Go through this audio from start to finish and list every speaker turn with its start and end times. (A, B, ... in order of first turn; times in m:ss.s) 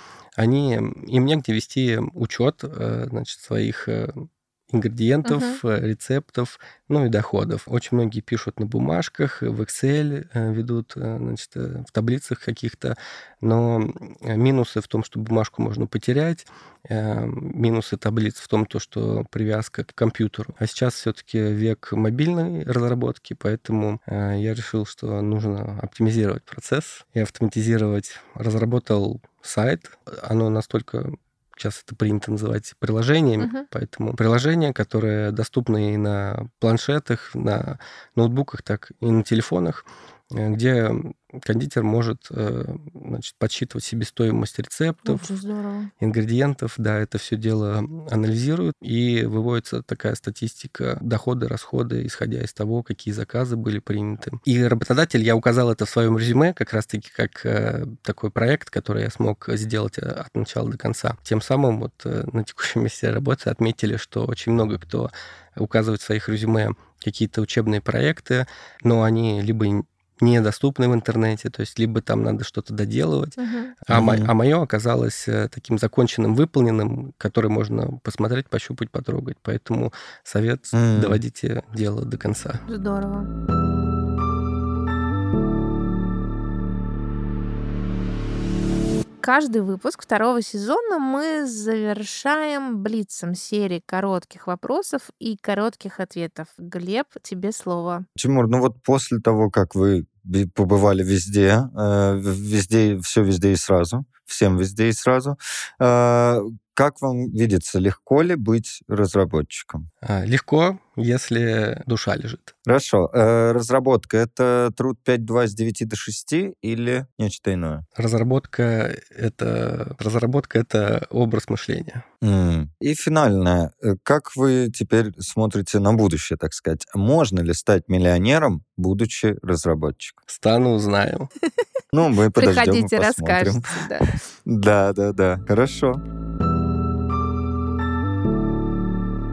0:00.4-0:45.4 A
0:05.2-0:05.6 B
0:33.4-0:33.7 B
0:45.0-0:45.9 B
0:46.0-1:22.7 A
1:13.4-1:13.7 B
1:13.9-1:14.3 C
1:20.7-1:21.2 C
1:22.7-1:23.3 B
1:29.2-1:38.1 B
1:38.2-1:49.8 C
1:50.0-1:52.5 A
1:52.7-1:57.8 C
1:58.0-2:02.0 A
2:02.2-2:10.2 C
2:10.3-2:11.3 A
2:11.9-2:16.0 C
2:12.4-2:14.2 B